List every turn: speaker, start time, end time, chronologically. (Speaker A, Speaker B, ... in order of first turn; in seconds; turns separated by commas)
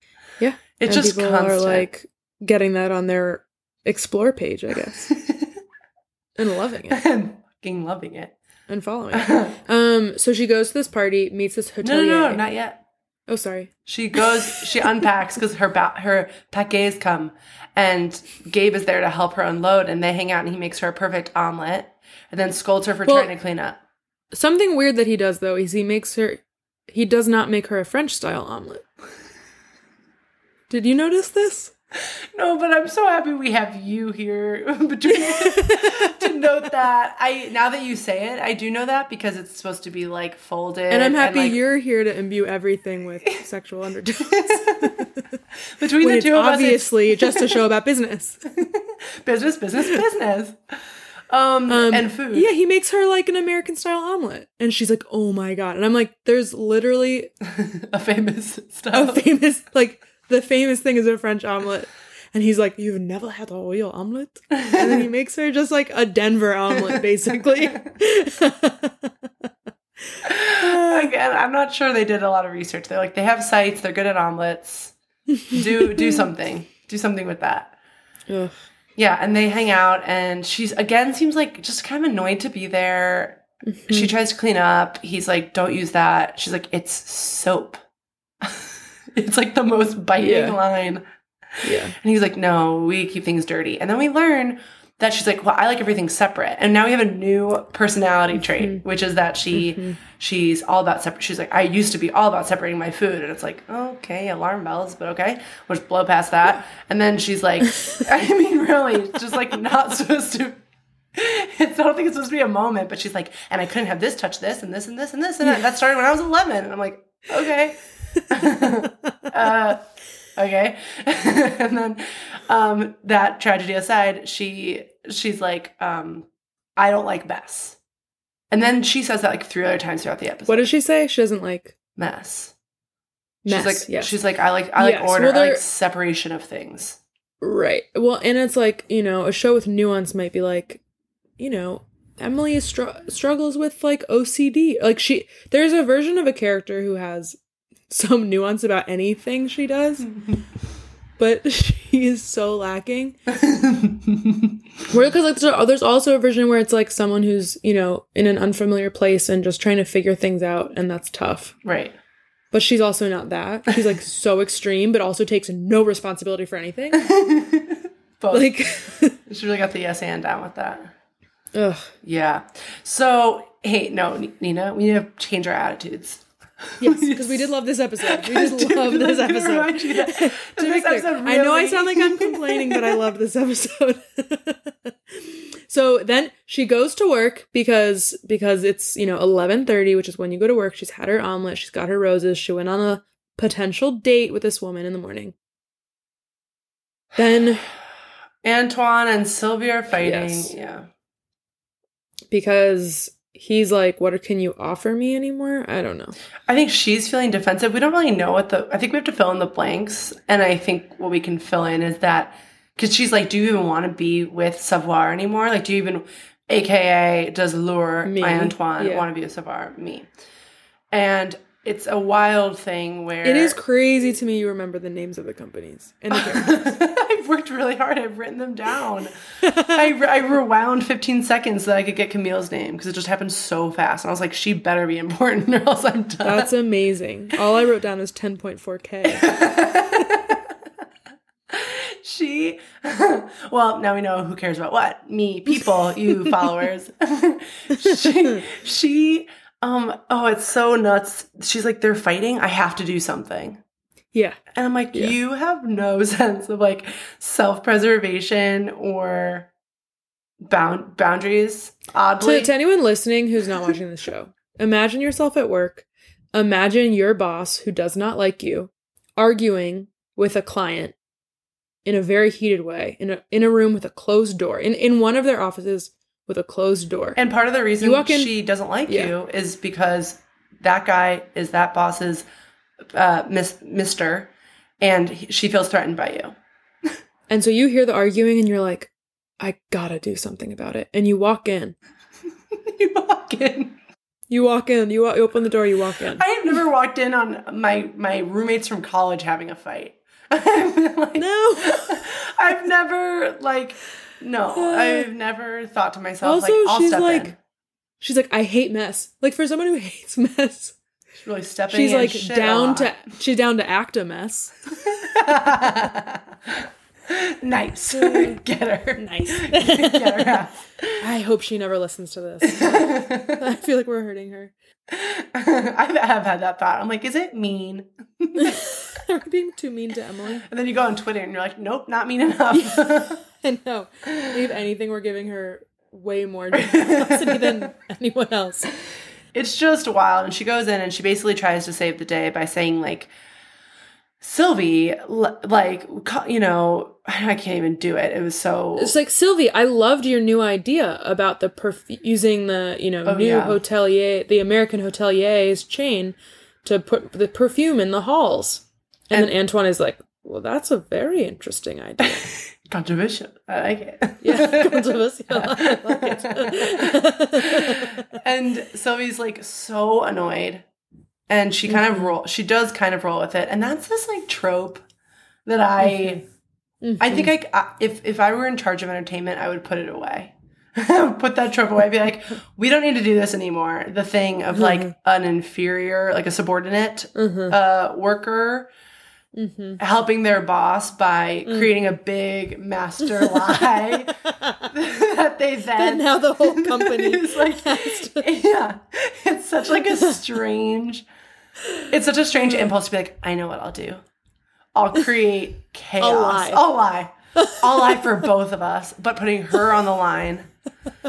Speaker A: 0.4-5.1, Speaker B: 0.8-1.9, Speaker B: 5.2-5.5, Speaker A: 6.4-7.0, Speaker B: 6.9-8.3, Speaker A: 8.7-12.4, Speaker B: 9.1-9.6, Speaker B: 11.8-12.8, Speaker A: 13.3-14.6, Speaker B: 13.9-23.8, Speaker A: 23.1-23.3, Speaker A: 24.3-28.9, Speaker A: 30.7-31.7, Speaker B: 32.4-41.6, Speaker A: 35.2-36.4, Speaker A: 40.9-45.2, Speaker B: 44.4-45.1, Speaker B: 45.8-47.6, Speaker A: 46.0-48.5, Speaker B: 48.6-50.6, Speaker B: 51.3-52.5, Speaker A: 51.7-57.3, Speaker B: 57.5-59.2, Speaker A: 58.9-69.5, Speaker B: 64.5-65.0, Speaker A: 70.1-71.1, Speaker B: 70.2-75.0, Speaker A: 75.3-76.2, Speaker B: 75.5-77.8, Speaker A: 78.3-78.6, Speaker B: 79.0-87.8, Speaker A: 83.7-84.1, Speaker B: 88.4-91.0, Speaker A: 90.2-90.6, Speaker B: 91.6-110.6, Speaker A: 91.6-92.0, Speaker A: 98.5-98.8, Speaker A: 99.5-100.0, Speaker B: 111.2-127.8, Speaker A: 118.4-118.9, Speaker B: 128.5-130.7, Speaker A: 130.5-131.8, Speaker B: 132.0-132.5, Speaker A: 133.4-134.1, Speaker B: 133.5-137.0, Speaker A: 134.8-135.6, Speaker A: 137.4-140.8, Speaker A: 141.4-150.1, Speaker A: 151.2-153.2, Speaker B: 153.4-154.5, Speaker A: 154.9-161.6, Speaker B: 161.6-162.0, Speaker A: 162.5-167.1, Speaker B: 167.0-168.5, Speaker A: 168.3-169.2, Speaker B: 169.2-170.9, Speaker A: 171.5-171.9, Speaker B: 172.0-177.5, Speaker A: 176.8-195.3, Speaker B: 178.0-182.9, Speaker A: 197.2-197.7, Speaker B: 198.4-200.9, Speaker A: 199.9-200.5, Speaker A: 202.3-206.2, Speaker B: 206.5-220.1, Speaker A: 218.1-219.1, Speaker B: 220.9-223.6, Speaker A: 223.2-226.8, Speaker B: 226.1-236.5, Speaker A: 229.4-229.9, Speaker A: 236.2-239.4, Speaker B: 239.1-240.5, Speaker B: 241.5-253.6, Speaker A: 246.1-246.5, Speaker A: 247.7-248.4, Speaker A: 254.1-254.4, Speaker B: 254.5-259.5, Speaker B: 260.4-262.5, Speaker A: 262.2-270.9, Speaker A: 271.9-277.2, Speaker B: 277.2-282.3, Speaker A: 277.8-278.3, Speaker A: 278.9-279.1, Speaker B: 282.9-284.3, Speaker B: 284.8-286.4, Speaker A: 287.3-291.8, Speaker B: 292.5-293.8, Speaker A: 294.3-296.2, Speaker B: 296.2-307.4, Speaker A: 301.2-302.1, Speaker A: 304.6-305.1, Speaker A: 306.2-307.3, Speaker A: 308.0-310.8, Speaker B: 311.2-312.9, Speaker A: 311.7-315.8, Speaker B: 314.8-321.0, Speaker A: 317.9-318.4, Speaker A: 319.0-320.4, Speaker A: 321.0-324.5, Speaker B: 322.4-323.4, Speaker B: 324.9-328.6, Speaker A: 328.4-330.5, Speaker B: 330.5-333.2, Speaker A: 332.5-338.7, Speaker B: 336.5-337.6, Speaker B: 339.3-343.1, Speaker B: 344.2-349.0, Speaker A: 348.8-362.3, Speaker B: 353.1-353.6, Speaker B: 362.6-370.6, Speaker A: 364.2-368.1, Speaker B: 371.3-374.8, Speaker A: 371.7-372.1, Speaker B: 375.5-376.2, Speaker A: 375.8-376.2, Speaker A: 376.8-377.3, Speaker B: 377.0-388.7, Speaker A: 384.5-384.9, Speaker A: 387.2-387.6, Speaker A: 389.4-389.8, Speaker B: 389.8-401.1, Speaker A: 393.2-394.7, Speaker A: 395.8-398.3, Speaker A: 399.9-400.2, Speaker B: 401.9-404.0, Speaker B: 404.8-410.5, Speaker A: 406.0-406.6, Speaker A: 407.4-408.1